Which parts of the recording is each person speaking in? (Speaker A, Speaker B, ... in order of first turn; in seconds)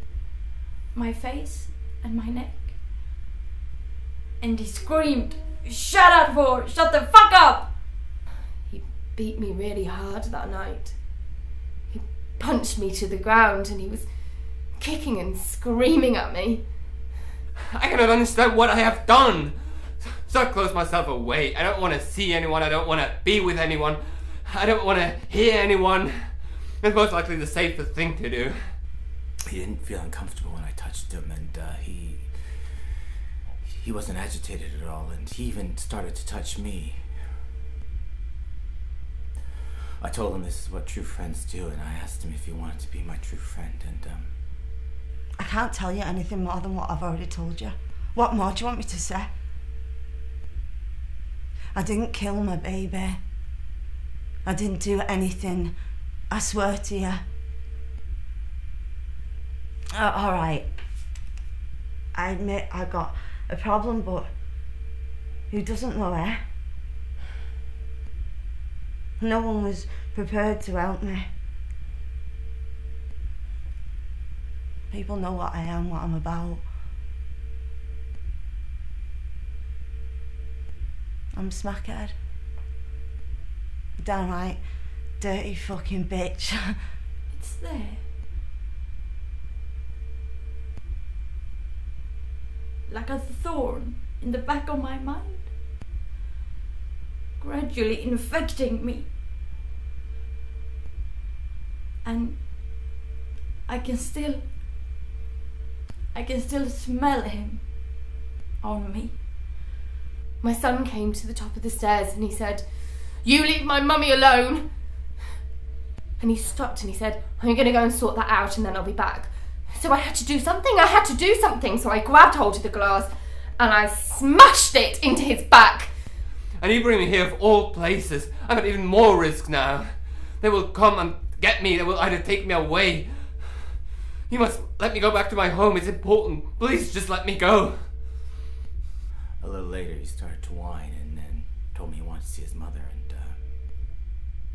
Speaker A: 0.9-2.8, 4.4-7.7, 87.3-88.0, 92.9-95.5, 97.4-99.1, 102.0-102.9, 103.7-104.5, 106.1-107.8, 108.6-109.2
Speaker B: 8.7-11.0, 11.9-16.6, 110.4-114.7, 116.2-126.0
Speaker C: 17.7-28.7, 126.5-138.3
Speaker D: 29.4-32.9, 33.6-37.2, 40.0-44.3, 139.4-143.4
Speaker E: 45.4-49.3, 51.7-53.2, 54.4-55.8, 56.3-57.2, 59.9-60.7, 62.1-64.3, 65.5-66.4, 69.2-71.3, 74.9-76.7, 81.3-82.1, 84.0-86.7